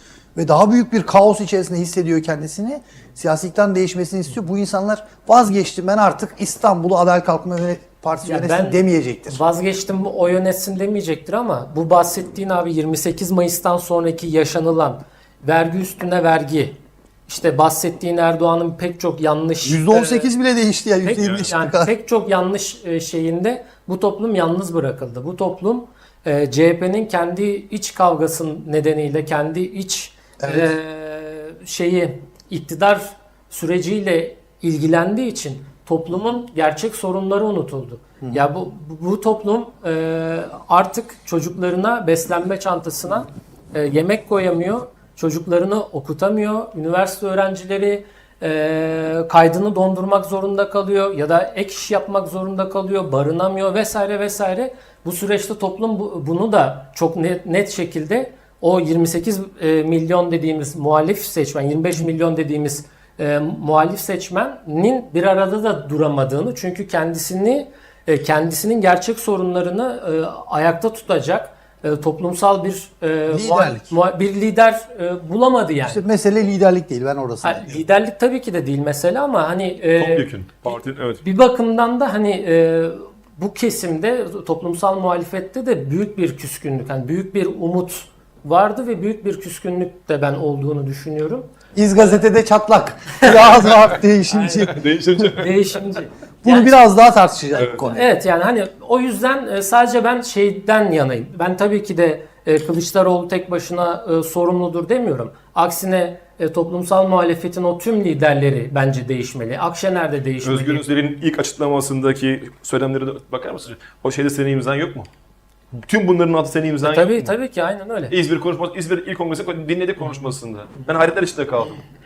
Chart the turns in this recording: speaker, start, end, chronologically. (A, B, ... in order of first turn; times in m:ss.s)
0:00.4-0:09.4 A
0:08.2-0:20.3 B
0:19.6-0:21.9 A
0:21.0-1:16.0 B
0:21.2-0:21.5 C
0:30.4-0:30.7 A
1:13.3-1:14.0 A
1:15.8-1:17.8 A
1:17.4-1:31.5 B
1:20.0-1:21.2 C
1:31.8-1:34.8 A
1:34.4-1:34.6 B
1:34.5-1:35.5 C
1:35.3-1:36.9 B
1:36.4-1:38.1 A
1:37.6-1:37.9 C
1:37.9-1:50.8 B
1:50.4-1:55.1 C
1:55.8-1:57.3 C
1:56.8-1:58.2 B
1:58.1-2:01.8 C